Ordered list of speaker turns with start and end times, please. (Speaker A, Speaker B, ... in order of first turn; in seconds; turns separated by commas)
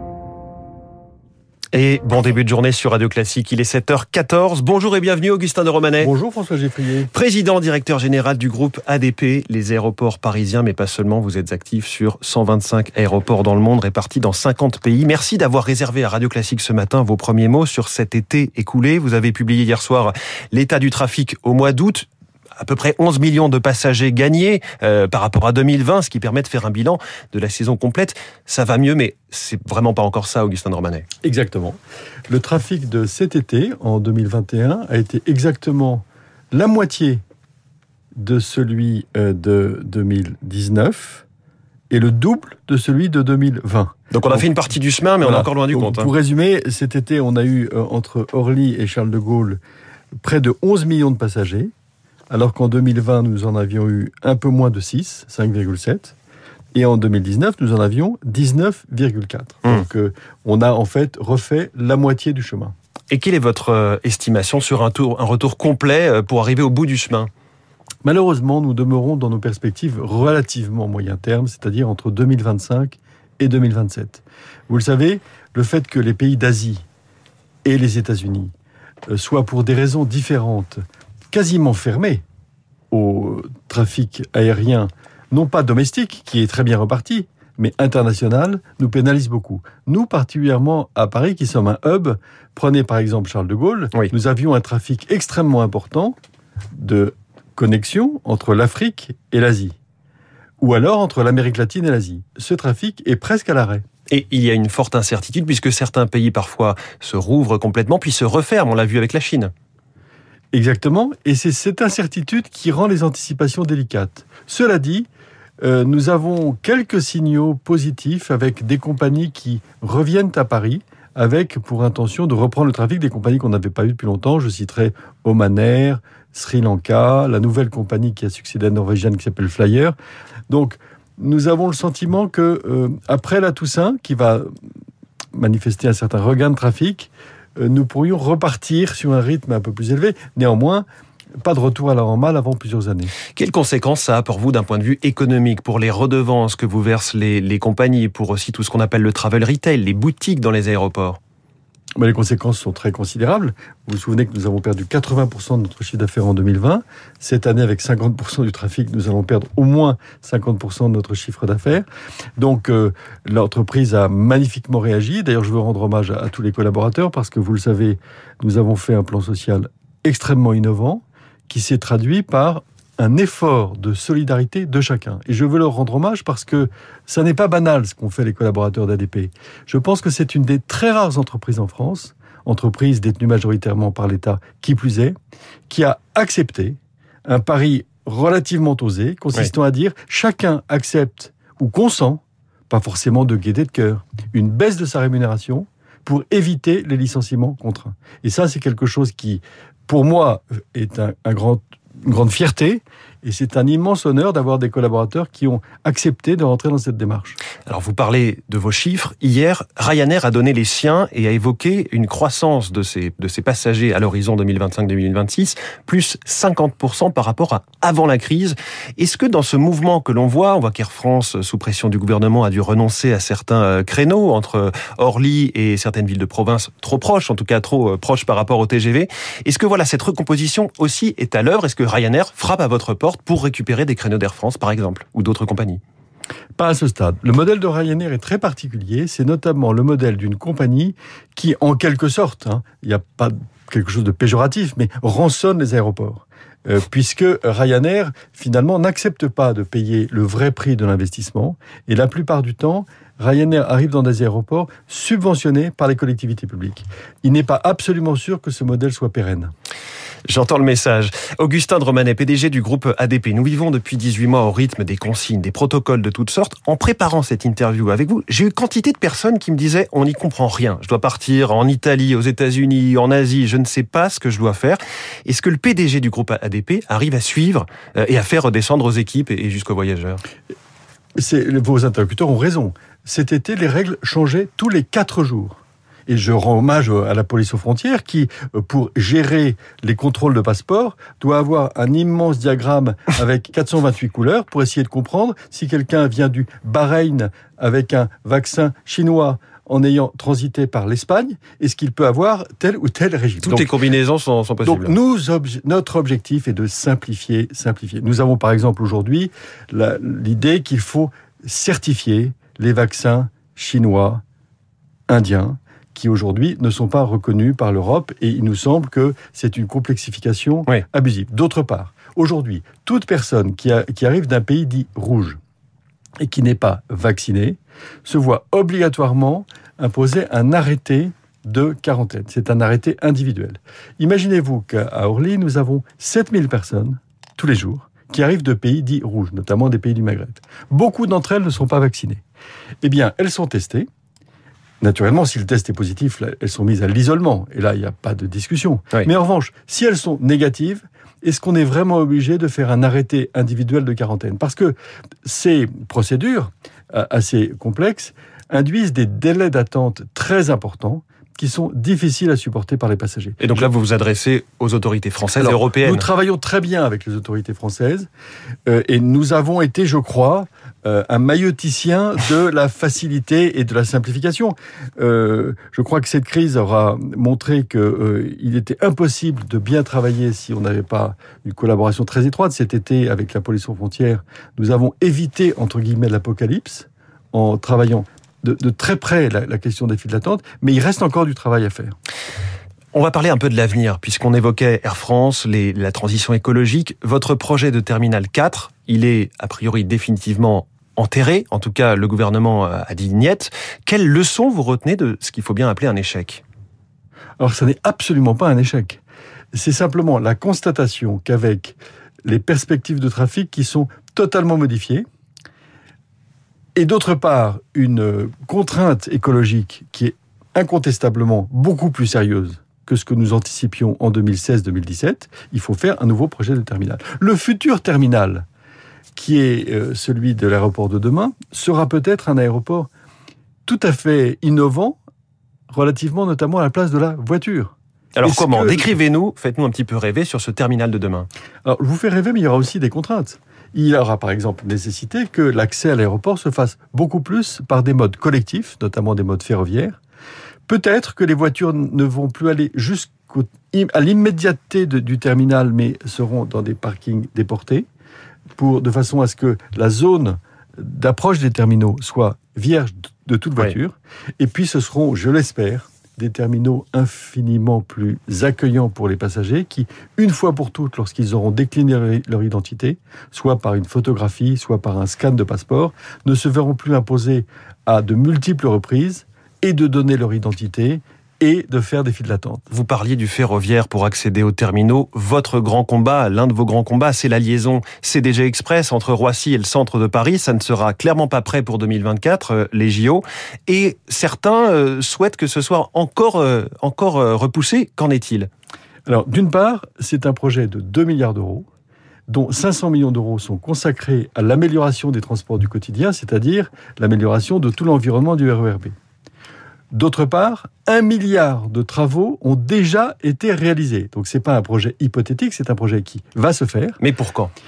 Speaker A: 1.7-6.1, Speaker B: 6.0-7.1, Speaker A: 7.1-31.1, Speaker B: 31.2-37.2, Speaker B: 38.1-41.2, Speaker B: 41.9-44.5, Speaker A: 44.1-46.1, Speaker B: 45.2-49.6, Speaker B: 50.2-51.7, Speaker B: 52.3-56.2, Speaker B: 56.7-62.8, Speaker A: 63.1-67.3, Speaker B: 68.0-76.8, Speaker B: 77.7-78.5, Speaker B: 79.1-80.8, Speaker B: 81.3-82.2, Speaker B: 82.9-96.2, Speaker B: 96.7-99.8, Speaker B: 100.6-103.8, Speaker A: 104.1-109.5, Speaker B: 110.5-115.1, Speaker B: 115.6-130.0, Speaker B: 130.5-134.5, Speaker B: 135.3-140.9, Speaker B: 141.4-143.1, Speaker A: 143.3-151.2, Speaker B: 152.0-161.9, Speaker B: 162.4-185.2, Speaker B: 185.7-207.4, Speaker A: 207.7-235.8, Speaker B: 236.6-259.5, Speaker A: 260.3-280.2, Speaker B: 281.2-303.7, Speaker A: 303.4-304.9, Speaker B: 304.6-314.2, Speaker B: 315.1-325.4, Speaker B: 326.2-342.2, Speaker B: 342.8-343.9, Speaker B: 344.8-363.7, Speaker A: 363.4-366.1, Speaker B: 365.4-368.1, Speaker B: 368.7-392.0, Speaker A: 392.9-406.4, Speaker B: 407.4-409.0, Speaker B: 409.5-415.1, Speaker B: 416.8-428.5, Speaker B: 429.1-432.9, Speaker B: 433.7-435.0, Speaker B: 435.7-438.9, Speaker A: 438.1-441.3, Speaker B: 441.6-450.0, Speaker B: 450.7-457.9, Speaker B: 458.6-482.6, Speaker A: 482.7-498.5, Speaker B: 499.1-501.7, Speaker B: 502.3-508.9, Speaker B: 509.9-517.0, Speaker A: 517.0-517.5